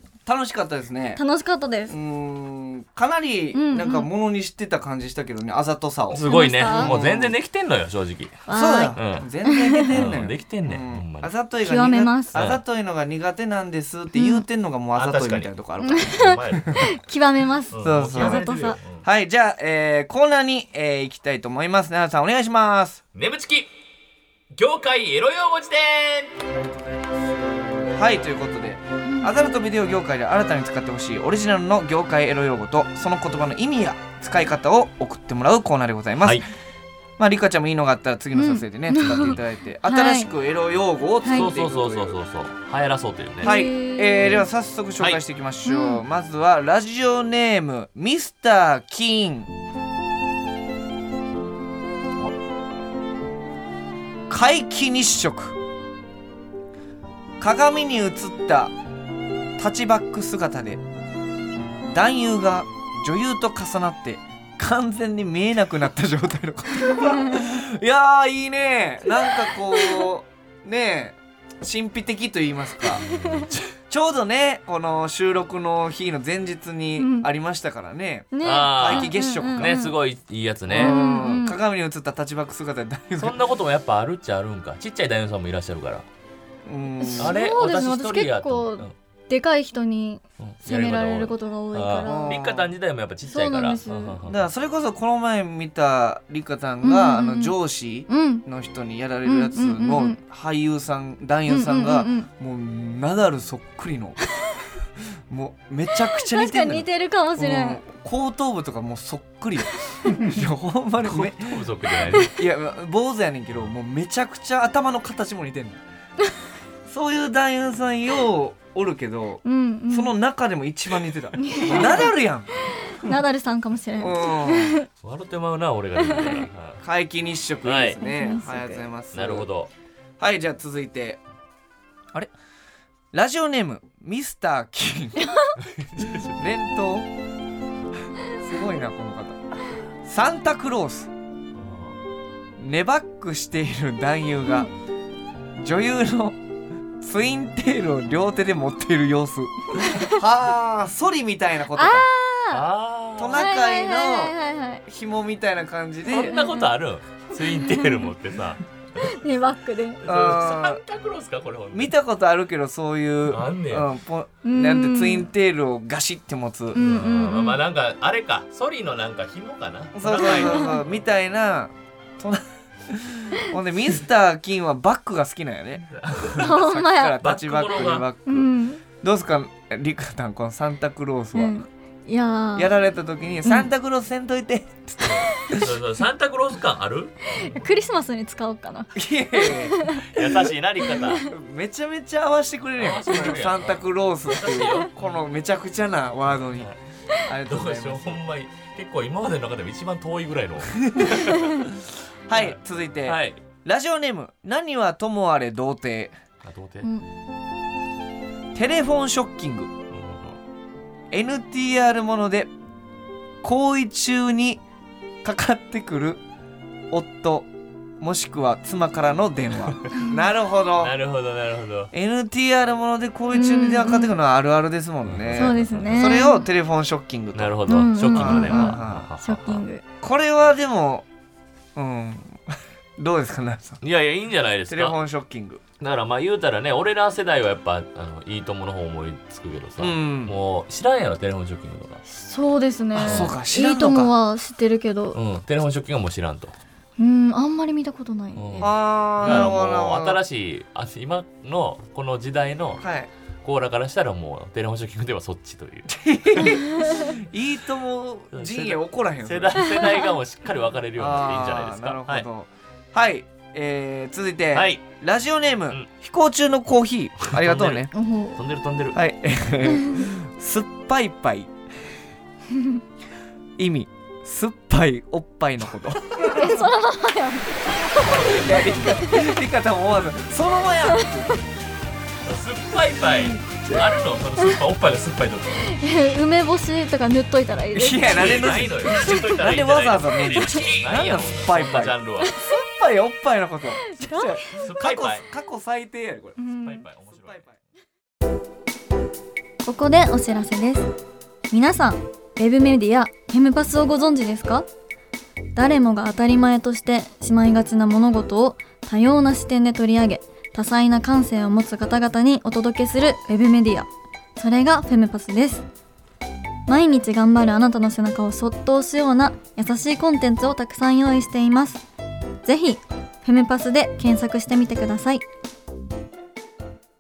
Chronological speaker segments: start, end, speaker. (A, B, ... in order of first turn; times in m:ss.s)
0:00.2-0:01.2 A
0:01.2-0:02.0 B
0:01.9-0:07.4 A
0:03.5-0:04.1 B
0:06.1-0:09.3 C
0:06.2-0:06.9 B
0:08.5-0:10.0 B
0:08.5-0:16.8 A
0:09.9-0:11.3 C
0:11.6-0:12.4 B
0:12.3-0:12.6 C
0:14.2-0:14.4 B
0:15.0-0:15.5 C
0:15.8-0:18.8 B
0:16.1-0:16.9 C
0:17.7-0:19.0 C
0:17.8-0:23.0 A
0:23.1-0:23.7 C
0:24.5-0:26.4 C
0:27.9-0:36.5 A
0:29.1-0:29.3 B
0:37.2-0:42.2 A
0:38.3-0:40.3 B
0:39.0-0:39.4 C
0:41.2-0:41.5 B
0:41.3-0:43.6 C
0:43.4-0:44.5 B
0:43.4-0:49.5 A
0:45.6-0:46.0 B
0:54.3-0:55.6 A
0:57.4-0:58.7 A
0:59.6-1:00.8 A
1:01.9-1:13.0 A
1:06.9-1:07.4 B
1:09.8-1:10.0 B
1:13.0-1:13.7 C
1:13.1-1:13.5 B
1:13.9-1:19.8 A
1:17.0-1:17.3 B
1:18.3-1:20.0 B
1:18.4-1:21.0 C
1:20.7-1:23.4 A
1:20.8-1:21.6 B
1:23.2-1:26.1 C
1:26.6-1:27.4 A
1:27.0-1:32.4 B
1:27.2-1:28.9 C
1:30.4-1:34.4 C
1:32.1-1:32.7 A
1:33.3-1:34.2 B
1:34.2-1:44.2 A
1:36.8-1:37.6 B
1:38.1-1:38.4 B
1:39.2-1:40.2 B
1:41.5-1:42.3 B
1:45.3-1:46.9 A
1:46.2-1:47.8 B
1:47.4-1:51.6 A
1:51.0-1:52.4 C
1:52.3-1:55.8 A
1:56.9-2:02.6 A
1:59.4-2:00.1 B
2:01.4-2:02.1 B
2:01.7-2:02.0 C
2:02.8-2:04.9 B
2:04.0-2:04.8 A
2:05.0-2:06.8 C
2:06.0-2:06.4 B
2:06.8-2:09.5 A
2:07.6-2:08.0 C
2:08.0-2:08.8 B
2:09.1-2:09.7 C
2:10.2-2:11.2 A
2:13.1-2:15.4 A
2:15.2-2:15.5 B
2:15.6-2:16.4 C
2:16.2-2:17.1 A
2:18.3-2:19.4 A
2:20.0-2:21.1 A
2:21.6-2:22.0 C
2:22.6-2:24.7 A
2:25.6-2:26.4 A
2:27.0-2:32.1 A
2:29.8-2:30.2 B
2:31.7-2:32.6 B
2:32.5-2:33.5 C
2:33.2-2:34.3 A
2:33.3-2:34.8 B
2:34.9-2:36.4 A
2:36.1-2:39.2 C
2:36.2-2:36.7 B
2:37.4-2:38.1 B
2:39.0-2:40.0 B
2:40.0-2:41.9 C
2:40.1-2:40.8 A
2:41.7-2:46.8 A
2:43.3-2:43.9 C
2:44.4-2:45.3 B
2:46.7-2:47.6 B
2:46.7-2:51.0 C
2:50.0-2:58.5 A
2:50.4-2:50.8 B
2:55.9-2:56.5 C
2:56.4-2:57.2 B
2:57.2-2:58.1 C
2:58.3-2:58.8 B
2:59.0-3:01.6 A
3:01.4-3:02.7 B
3:02.6-3:05.7 A
3:05.0-3:07.6 C
3:07.4-3:10.2 B
3:09.0-3:10.3 A
3:10.0-3:11.3 C
3:10.9-3:11.2 B
3:11.2-3:16.7 A
3:12.8-3:15.2 C
3:16.5-3:16.8 C
3:17.2-3:18.2 A
3:17.5-3:23.4 C
3:20.8-3:21.2 A
3:21.1-3:21.6 B
3:22.3-3:26.2 A
3:26.4-3:26.9 C
3:28.5-3:29.7 A
3:29.9-3:30.4 C
3:31.1-3:32.5 A
3:33.4-3:34.6 A
3:35.2-3:36.2 A
3:36.9-3:37.5 A
3:38.0-3:41.0 A
3:40.8-3:41.9 C
3:41.9-3:49.1 A
3:43.3-3:44.1 B
3:45.0-3:46.2 C
3:45.3-3:46.5 B
3:47.4-3:49.6 C
3:47.7-3:49.8 B
3:50.0-3:51.1 A
3:51.8-3:53.8 A
3:53.8-3:55.0 C
3:54.7-3:55.6 A
3:55.8-4:02.0 C
3:59.8-4:00.4 A
4:02.1-4:05.2 B
4:03.0-4:03.3 C
4:03.0-4:04.1 A
4:05.1-4:06.6 C
4:07.0-4:08.7 B
4:08.4-4:12.8 C
4:08.6-4:10.2 A
4:12.8-4:13.1 A
4:13.4-4:15.9 C
4:15.9-4:19.9 A
4:16.4-4:17.1 B
4:18.3-4:22.3 C
4:19.6-4:20.1 B
4:21.0-4:27.9 A
4:24.6-4:24.8 C
4:27.2-4:29.0 C
4:27.9-4:28.4 B
4:28.9-4:31.5 A
4:29.7-4:30.1 B
4:33.6-4:36.4 A
4:36.3-4:39.3 B
4:38.0-4:38.9 C
4:38.1-4:41.4 A
4:42.2-4:45.7 C
4:43.0-4:43.4 B
4:45.7-4:49.4 B
4:47.7-4:56.4 A
4:48.1-4:52.4 C
4:50.3-4:50.8 B
4:53.9-4:54.4 B
4:54.6-4:55.2 C
4:56.4-4:56.8 B
4:56.6-4:57.5 C
4:59.6-5:00.9 B
5:01.5-5:04.7 B
5:05.6-5:15.7 B
5:16.7-5:21.8 B
5:22.4-5:25.2 B